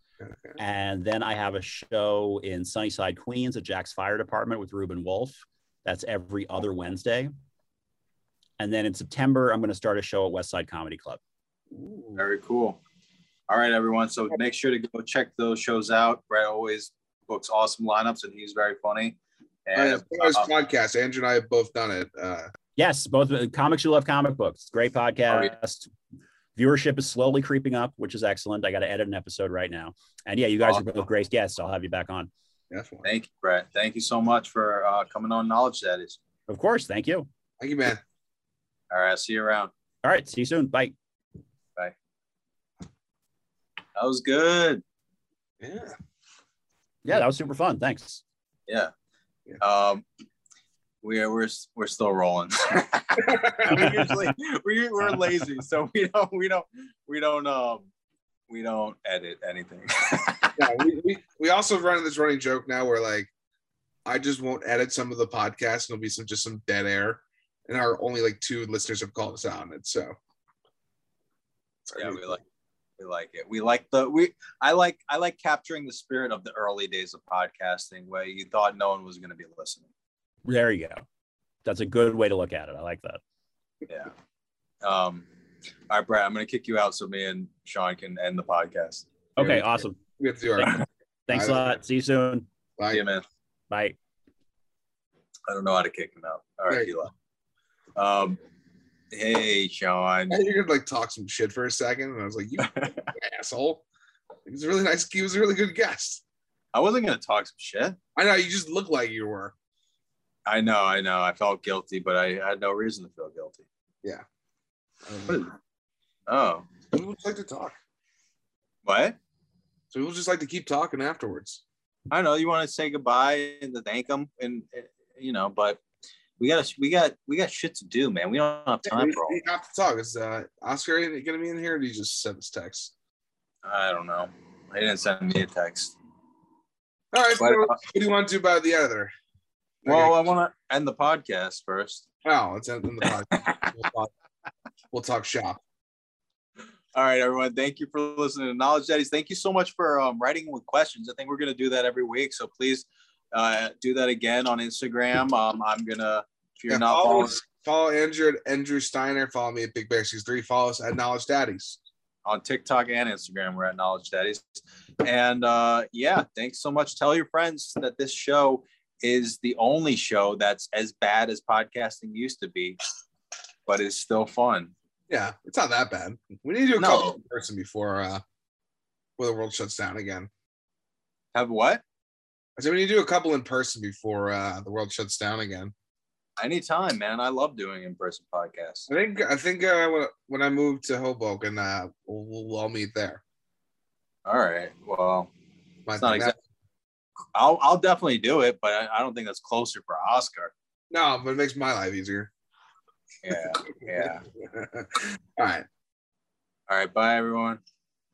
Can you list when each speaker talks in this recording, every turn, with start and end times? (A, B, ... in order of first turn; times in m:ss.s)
0:00.2-0:00.6 A
0:00.6-0:07.3 B
0:08.6-0:11.2 B
0:11.7-0:12.2 A
0:12.2-0:12.8 C
0:13.5-0:20.5 C
0:19.8-0:22.5 A
0:22.8-0:25.9 B
0:26.6-0:32.3 B
0:32.7-0:33.1 A
0:33.0-0:36.2 C
0:36.5-0:37.3 B
0:37.6-0:38.0 A
0:38.9-0:39.7 C
0:40.0-0:40.9 B
0:44.0-0:44.8 C
0:45.6-0:46.0 A
0:47.0-0:48.2 B
0:49.6-0:50.0 C
0:51.0-0:57.9 C
0:53.2-0:53.8 A
0:58.5-1:00.6 C
1:00.6-1:03.3 A
1:04.0-1:10.2 A
1:11.9-1:12.3 A
1:12.0-1:12.4 C
1:13.0-1:19.9 C
1:20.4-1:21.0 B
1:21.6-1:23.2 B
1:24.8-1:25.2 C
1:25.9-1:29.1 C
1:29.4-1:30.0 B
1:29.4-1:30.8 A
1:30.6-1:32.4 B
1:31.3-1:31.8 A
1:32.8-1:33.0 A
1:32.9-1:33.2 C
1:33.7-1:34.0 B
1:35.5-1:37.1 C
1:38.0-1:38.4 C
1:39.1-1:40.4 C
1:40.3-1:43.8 A
1:42.6-1:43.1 C
1:44.4-1:46.2 A
1:46.7-1:48.0 C
1:48.2-1:49.5 A
1:50.4-1:53.6 C
1:55.0-1:55.4 A
1:55.3-1:55.5 C
1:56.3-1:56.7 C
1:56.9-1:57.8 A
1:58.8-1:59.2 C
1:59.9-2:01.6 A
2:02.1-2:05.8 C
2:06.4-2:09.4 C
2:08.8-2:12.9 A
2:13.6-2:15.9 C
2:17.1-2:19.1 A
2:17.4-2:17.8 C
2:19.8-2:20.1 A
2:19.8-2:22.0 C
2:22.2-2:24.1 A
2:24.9-2:25.6 A
2:26.9-2:37.4 C
2:36.7-2:41.8 A
2:42.2-2:52.8 C
2:53.6-2:54.7 C
2:55.1-2:58.2 A
2:56.8-2:57.2 C
2:59.2-3:00.3 A
3:01.3-3:01.8 C
3:02.6-3:05.7 A
3:06.4-3:08.9 C
3:08.9-3:13.2 A
3:14.2-3:15.3 C
3:15.9-3:16.4 A
3:16.0-3:16.3 C
3:17.3-3:20.5 C
3:20.9-3:22.3 A
3:23.2-3:24.2 C
3:24.4-3:25.6 A
3:26.7-3:27.6 C